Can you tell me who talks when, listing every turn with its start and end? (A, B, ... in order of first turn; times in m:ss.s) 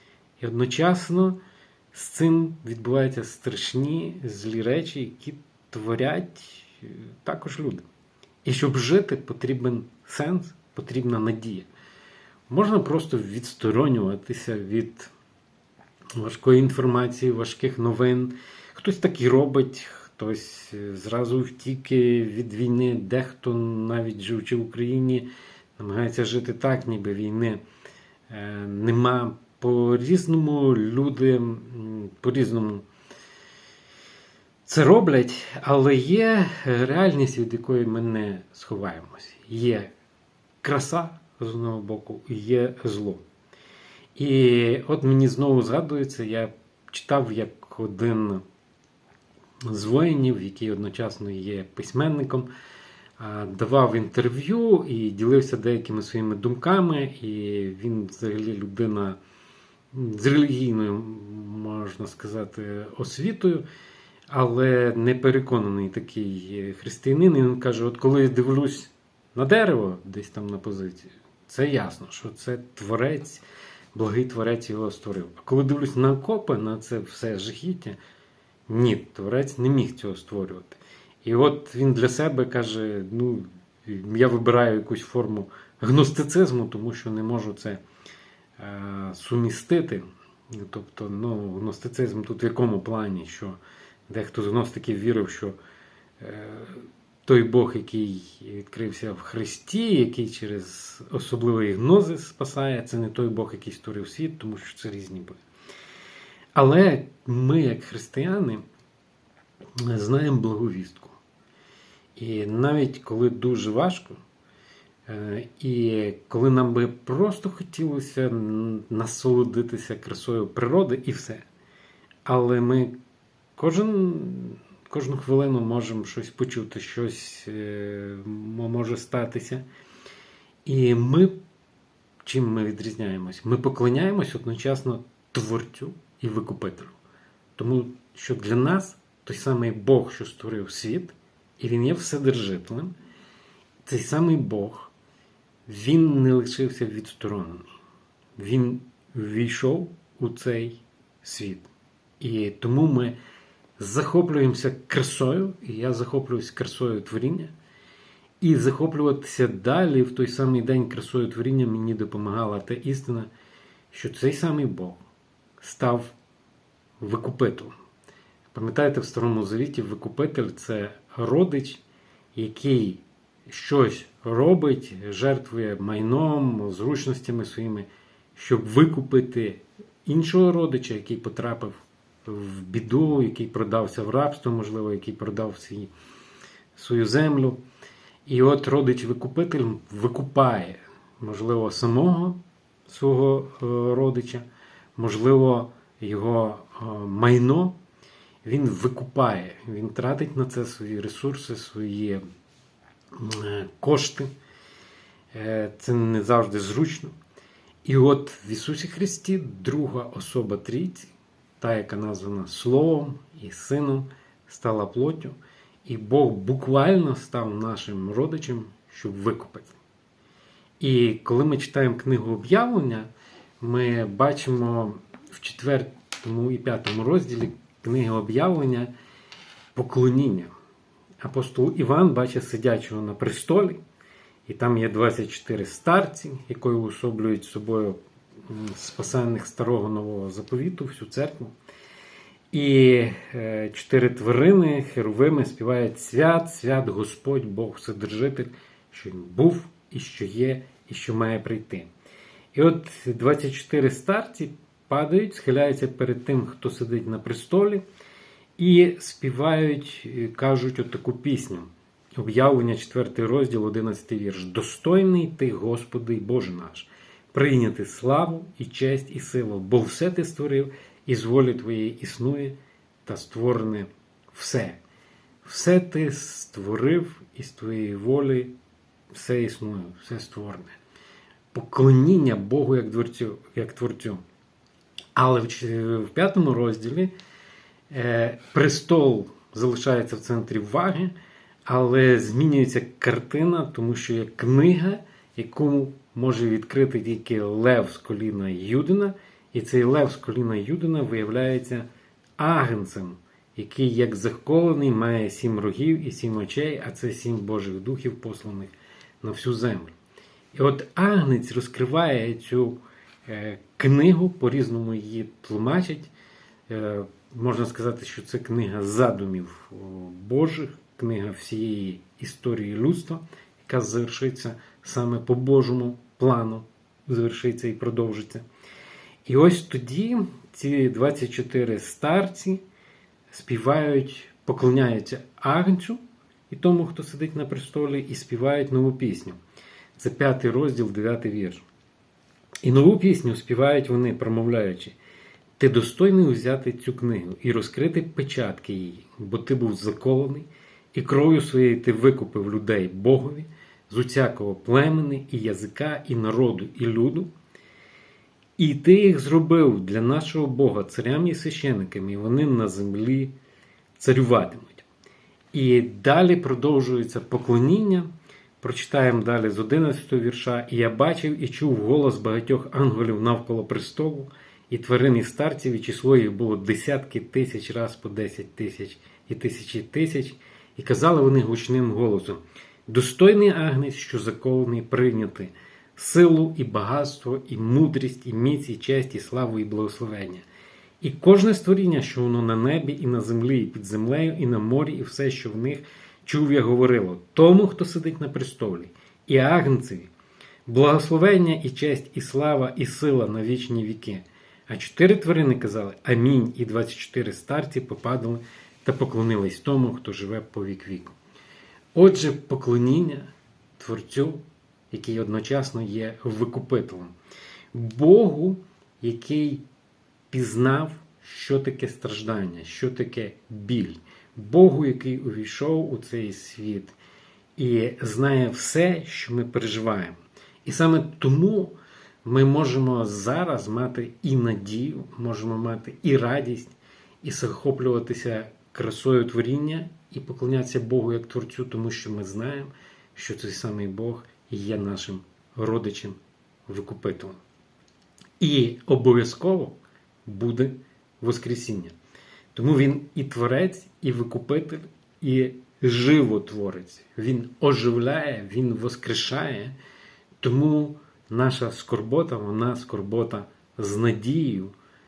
0:00.4-0:01.4 A
0:01.9-0:07.8 A
0:08.4-0:11.7 A
0:12.5-0:15.1 A
0:16.2-0:27.6 A
0:28.3-0:32.8 A
0:34.6-0:39.9 A
0:40.6-0:43.2 A
0:44.1-0:48.4 A
0:49.7-0:52.5 A
0:53.2-0:59.2 A
0:59.9-1:03.6 A
1:04.3-1:18.0 A
1:18.7-1:27.8 A
1:28.6-1:35.6 A
1:36.2-1:45.4 A
1:46.5-1:48.6 A
1:49.8-1:51.2 A
1:52.2-1:54.2 A
1:55.1-2:01.4 A
2:02.2-2:02.9 A
2:03.6-2:09.6 A
2:10.6-2:11.4 A
2:12.2-2:16.9 A
2:17.6-2:22.9 A
2:23.8-2:24.9 A
2:25.7-2:27.6 A
2:28.4-2:33.2 A
2:33.8-2:37.5 A
2:38.4-2:43.3 A
2:43.9-2:45.0 A
2:45.6-2:46.2 A
2:47.0-2:47.7 A
2:48.5-2:51.8 A
2:52.3-3:05.9 A
3:06.7-3:07.6 A
3:08.2-3:14.4 A
3:15.0-3:17.8 A
3:18.4-3:22.2 A
3:23.1-3:24.3 A
3:25.3-3:27.1 A
3:27.8-3:39.8 A
3:40.8-3:43.1 A
3:43.6-3:48.9 A
3:49.7-3:50.5 A
3:51.2-3:53.8 A
3:54.4-4:01.5 A
4:02.5-4:11.9 A
4:12.5-4:17.8 A
4:18.6-4:34.8 A
4:35.4-4:38.5 A
4:39.1-4:40.7 A
4:41.5-4:44.2 A
4:45.2-4:47.1 A
4:47.9-4:51.1 A
4:51.6-5:01.9 A
5:02.4-5:09.9 A
5:10.5-5:16.1 A
5:16.7-5:28.4 A
5:29.2-5:32.6 A
5:33.3-5:39.4 A
5:40.0-5:41.6 A
5:42.6-5:45.0 A
5:45.6-5:57.3 A
5:58.6-6:03.3 A
6:04.0-6:04.9 A
6:05.5-6:08.1 A
6:08.6-6:30.4 A
6:31.0-6:40.1 A
6:40.6-6:51.2 A
6:51.9-6:57.1 A
6:57.7-6:59.6 A
7:00.3-7:07.0 A
7:07.6-7:27.4 A
7:28.4-7:31.9 A
7:32.5-7:39.8 A
7:40.4-7:44.7 A